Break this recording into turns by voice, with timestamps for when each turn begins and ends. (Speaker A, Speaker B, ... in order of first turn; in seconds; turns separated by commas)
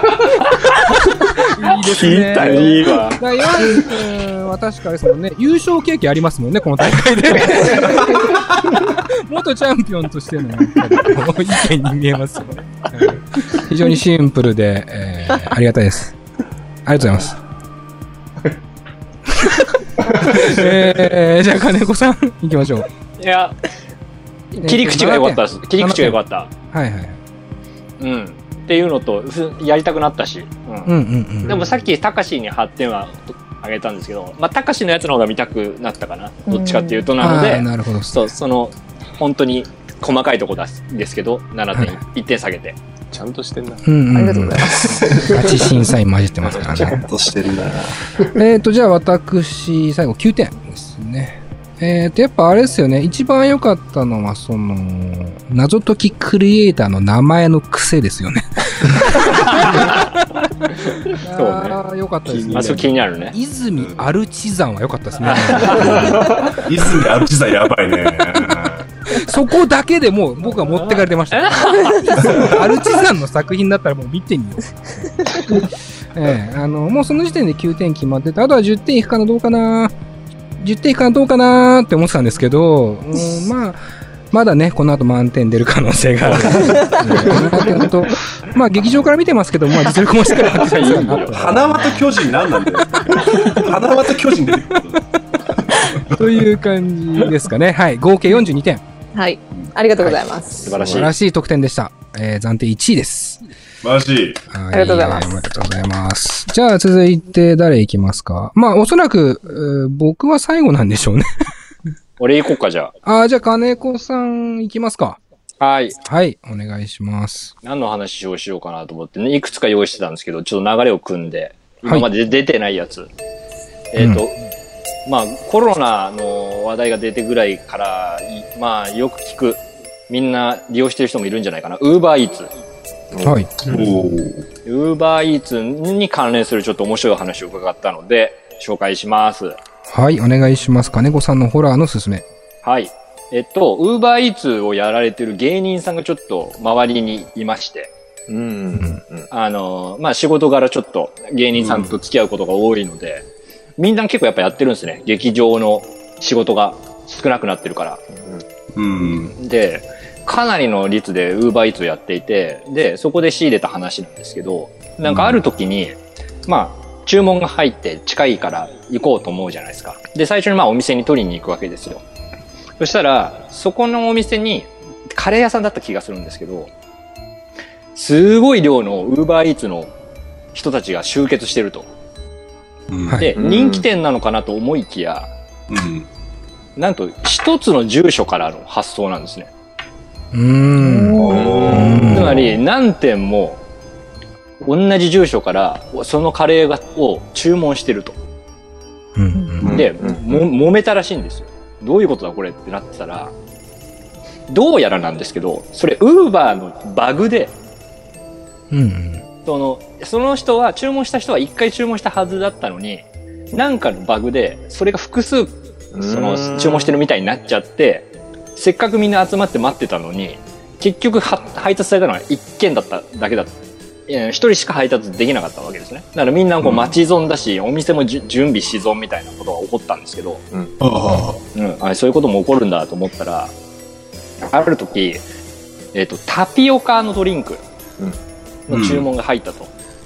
Speaker A: 1.1-16.1, Speaker B: 1.8-3.7, Speaker C: 2.3-3.2, Speaker A: 16.8-17.4, Speaker A: 19.3-22.9, Speaker C: 23.2-23.6, Speaker C: 24.5-26.5, Speaker A: 24.6-27.2, Speaker C: 28.0-30.9, Speaker A: 30.9-31.6, Speaker C: 31.5-42.8, Speaker D: 36.5-37.1, Speaker A: 37.2-38.3, Speaker B: 43.1-43.9, Speaker A: 43.8-47.0, Speaker D: 44.1-45.6, Speaker E: 44.8-45.3, Speaker B: 46.6-47.1, Speaker E: 46.9-47.9, Speaker A: 48.3-60.0, Speaker C: 59.7-60.0, Speaker A: 61.2-66.2, Speaker C: 61.3-63.4, Speaker E: 63.8-64.1, Speaker C: 65.2-66.1, Speaker E: 66.5-68.9, Speaker A: 69.1-79.9, Speaker C: 70.7-72.3, Speaker E: 72.3-72.5, Speaker A: 80.6-83.8, Speaker A: 84.3-92.1, Speaker C: 87.2-87.4, Speaker C: 90.5-91.5, Speaker E: 91.3-96.4, Speaker A: 93.1-93.6, Speaker A: 96.1-98.8, Speaker D: 99.1-100.7, Speaker C: 100.6-101.1, Speaker B: 100.7-101.1, Speaker A: 100.8-103.4, Speaker E: 103.8-104.4, Speaker A: 104.5-111.3, Speaker D: 104.7-105.4, Speaker C: 112.2-112.9, Speaker A: 113.0-115.2, Speaker C: 115.6-116.0, Speaker A: 116.0-117.5, Speaker C: 117.6-123.1, Speaker C: 123.9-124.4, Speaker A: 124.0-124.2, Speaker C: 125.0-132.5, Speaker B: 133.1-133.8, Speaker A: 133.2-133.5, Speaker E: 133.7-134.4, Speaker C: 134.7-139.6, Speaker A: 139.9-142.2, Speaker C: 142.6-147.9, Speaker B: 148.3-149.3, Speaker C: 149.3-153.3, Speaker E: 151.6-151.9, Speaker C: 153.8-158.0, Speaker B: 158.1-158.4, Speaker E: 158.7-159.4, Speaker C: 159.4-172.0, Speaker E: 165.1-165.4, Speaker C: 172.8-176.7, Speaker C: 177.9-179.9, Speaker C: 180.5-181.9, Speaker E: 182.9-183.3, Speaker C: 183.1-185.3, Speaker B: 183.4-183.9, Speaker E: 185.7-186.1, Speaker C: 186.8-189.5, Speaker A: 190.3-192.5, Speaker D: 190.8-191.6, Speaker E: 191.1-192.5, Speaker B: 191.3-192.1, Speaker C: 192.1-193.6, Speaker C: 194.6-198.2, Speaker A: 199.2-199.7, Speaker E: 199.6-199.9, Speaker B: 199.6-200.4, Speaker C: 199.7-203.3, Speaker C: 204.5-207.5, Speaker A: 208.7-209.2, Speaker C: 209.4-223.6, Speaker B: 215.9-217.0, Speaker C: 224.1-230.4, Speaker E: 230.8-231.4, Speaker C: 231.6-233.5, Speaker C: 234.4-235.2, Speaker C: 235.9-237.6, Speaker C: 238.7-239.7, Speaker E: 238.7-239.1